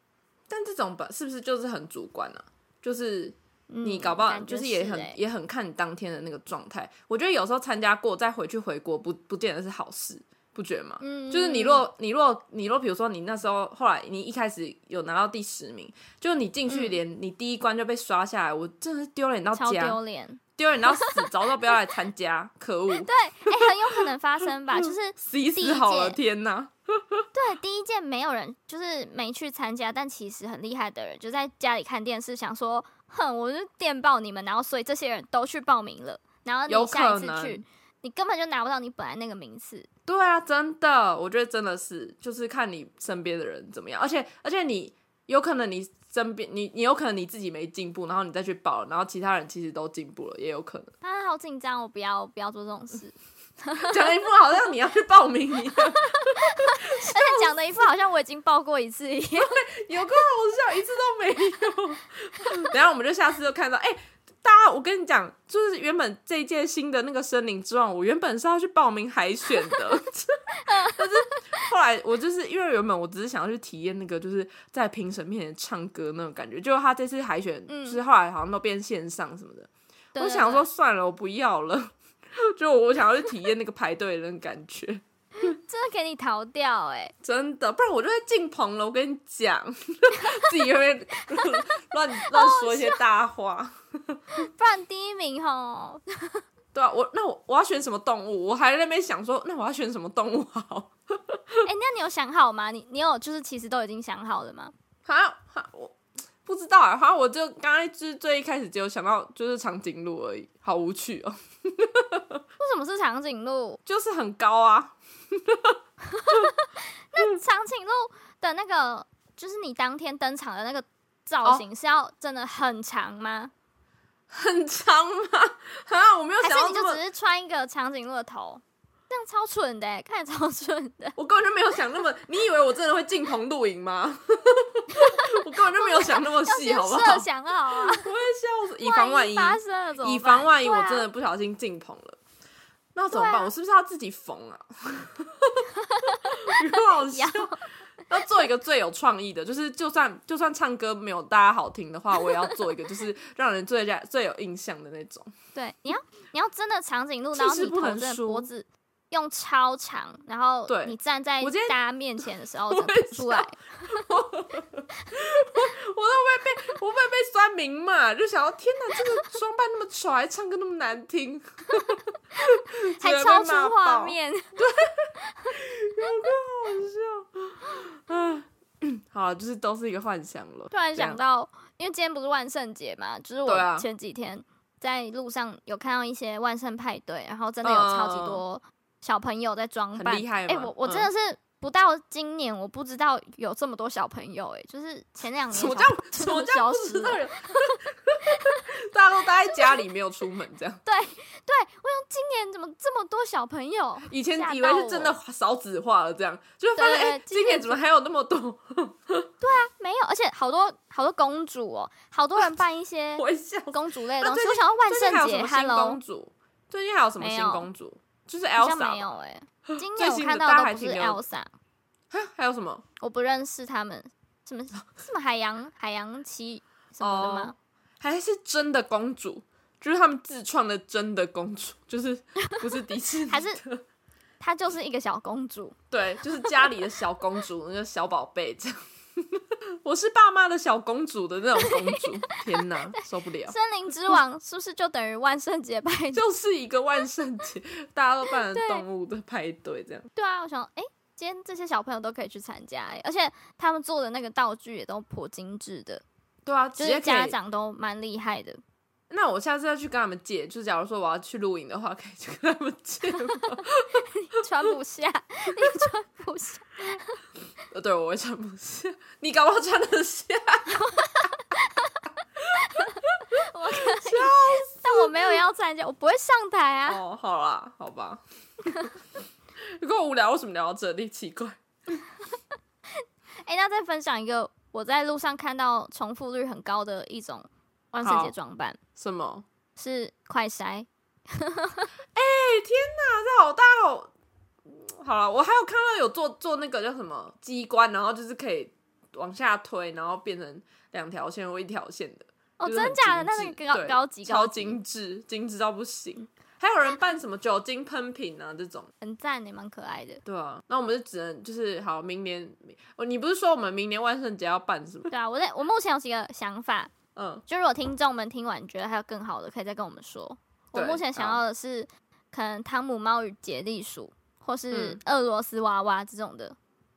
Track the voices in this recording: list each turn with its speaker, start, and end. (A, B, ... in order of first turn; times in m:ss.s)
0:00.5-0:20.0 A
0:03.7-0:05.2 B
0:11.0-0:11.8 B
0:16.7-0:17.0 B
0:19.6-0:21.3 B
0:20.6-0:24.0 A
0:22.9-0:26.2 B
0:24.8-0:27.2 A
0:27.3-0:39.9 B
0:36.7-0:37.6 A
0:40.1-0:50.9 A
0:51.0-0:53.9 B
0:53.8-0:57.6 A
0:55.7-0:59.6 B
0:59.4-1:25.5 A
1:10.7-1:11.6 B
1:17.7-1:18.0 B
1:20.2-1:20.7 B
1:25.4-1:27.1 B
1:27.2-1:34.2 A
1:32.3-1:33.0 B
1:34.4-1:36.4 B
1:36.7-1:41.7 A
1:41.6-1:44.7 B
1:45.1-1:52.4 A
1:52.6-1:53.8 B
1:53.9-1:55.8 A
1:56.1-2:03.5 B
2:04.3-2:07.0 A
2:06.4-2:11.2 B
2:11.2-2:22.2 A
2:15.8-2:18.1 B
2:18.8-2:21.1 B
2:23.0-2:25.7 A
2:23.1-2:23.5 B
2:25.8-2:27.6 B
2:26.5-2:27.6 A
2:28.1-2:35.3 A
2:32.2-2:32.6 B
2:35.6-2:44.1 B
2:37.3-2:38.5 A
2:40.7-2:52.0 A
2:52.4-2:54.5 B
2:52.7-3:01.2 A
2:55.4-2:56.3 B
3:00.7-3:17.2 B
3:03.5-3:03.9 A
3:07.6-3:08.4 A
3:10.0-3:11.1 A
3:15.5-3:20.8 A
3:18.3-3:18.6 B
3:20.8-3:25.2 B
3:24.1-3:29.3 A
3:26.8-3:27.8 B
3:29.4-3:36.0 B
3:33.2-3:39.1 A
3:37.2-3:37.7 B
3:38.6-3:41.5 B
3:39.7-3:41.2 A
3:42.1-3:42.8 A
3:43.0-3:47.6 B
3:47.0-3:53.8 A
3:53.3-3:53.6 B
3:54.4-3:55.8 B
3:55.9-4:03.6 A
4:01.6-4:06.2 B
4:06.1-4:10.1 A
4:08.5-4:08.8 B
4:10.2-4:16.0 B
4:16.5-4:17.4 A
4:16.8-4:18.6 B
4:19.1-4:24.0 A
4:24.2-4:27.2 B
4:27.7-4:30.8 A
4:30.7-4:32.0 B
4:32.6-4:37.0 B
4:33.8-4:35.4 A
4:36.9-4:38.2 A
4:39.6-4:42.0 A
4:43.4-4:48.8 B
4:48.0-4:48.3 A
4:49.0-4:49.5 A
4:49.8-4:51.9 B
4:52.2-4:54.1 A
4:54.6-5:08.9 A
5:02.6-5:04.8 B
5:09.0-5:10.2 B
5:10.2-5:15.1 A
5:15.1-5:16.9 B
5:17.2-5:17.4 A
5:17.5-5:26.6 B
5:20.7-5:21.4 A
5:24.7-5:25.0 A